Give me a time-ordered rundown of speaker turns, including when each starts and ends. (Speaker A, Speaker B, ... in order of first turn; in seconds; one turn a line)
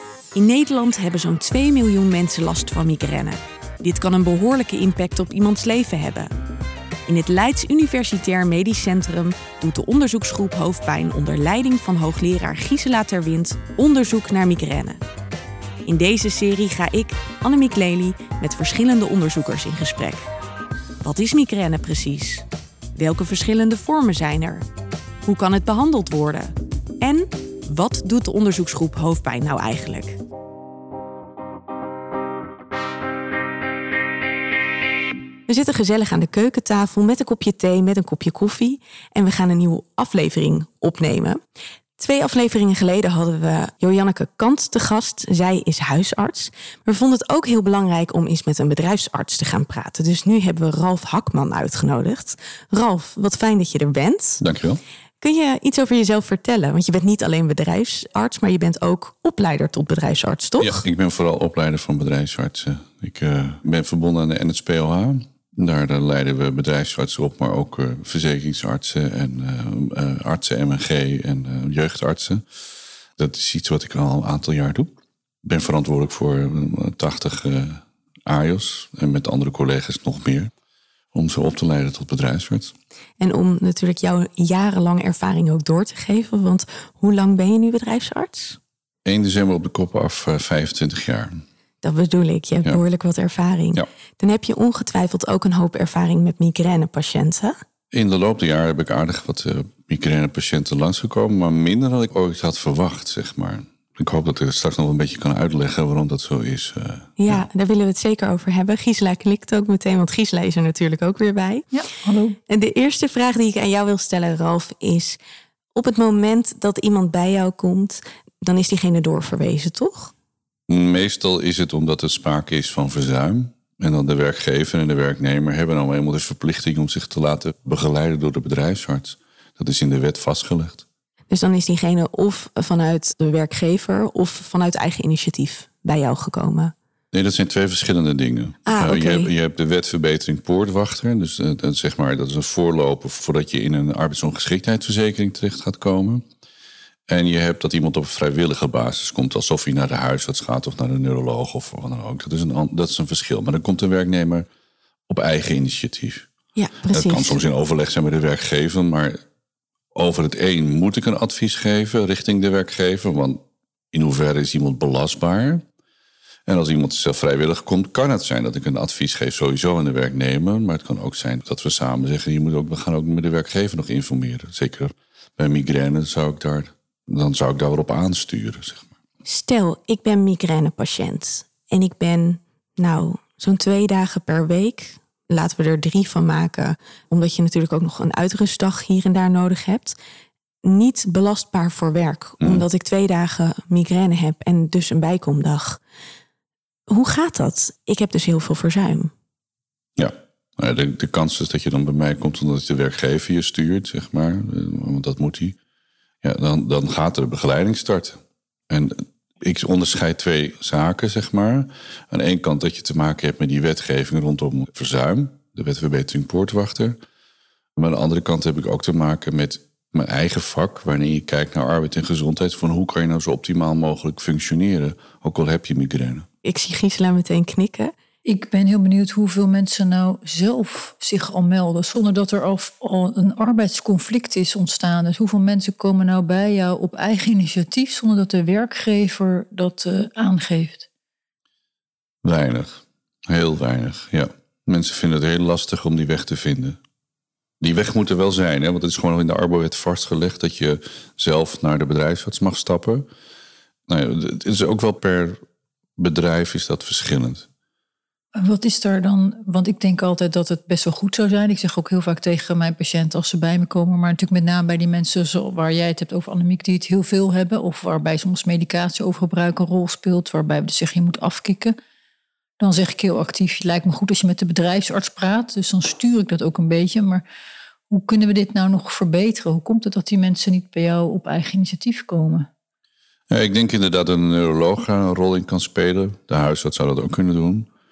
Speaker A: 0.3-6.3
Speaker A: 7.0-15.0
Speaker A: 15.8-20.3
Speaker A: 21.0-24.6
Speaker A: 25.2-30.2
Speaker A: 35.5-41.4
Speaker A: 42.0-54.4
Speaker B: 54.4-54.8
Speaker A: 55.2-60.8
Speaker B: 60.6-72.4
Speaker B: 73.2-74.9
Speaker B: 75.4-80.5
Speaker B: 81.1-82.7
Speaker A: 83.2-88.6
Speaker B: 89.0-91.4
Speaker A: 91.8-97.6
Speaker B: 97.9-107.4
Speaker A: 107.2-111.7
Speaker C: 111.7-112.4
Speaker A: 112.5-115.2
Speaker A: 115.7-120.1
Speaker B: 120.7-130.8
Speaker A: 131.3-136.7
Speaker B: 137.1-146.2
Speaker A: 138.7-139.3
Speaker B: 147.1-154.5
Speaker B: 155.1-156.3
Speaker A: 156.6-157.4
Speaker B: 156.9-159.2
Speaker B: 159.9-165.6
Speaker B: 166.5-178.9
Speaker A: 179.2-190.0
Speaker A: 190.6-195.8
Speaker A: 196.9-199.1
Speaker B: 200.0-205.6
Speaker B: 206.2-208.2
Speaker B: 208.7-217.0
Speaker B: 217.8-226.2
Speaker A: 226.4-227.9
Speaker C: 228.2-240.9
Speaker B: 242.2-246.8
Speaker B: 247.6-253.1
Speaker B: 253.9-255.4
Speaker B: 256.0-257.5
Speaker C: 258.3-271.7
Speaker C: 272.6-277.2
Speaker C: 277.9-282.5
Speaker B: 283.3-287.7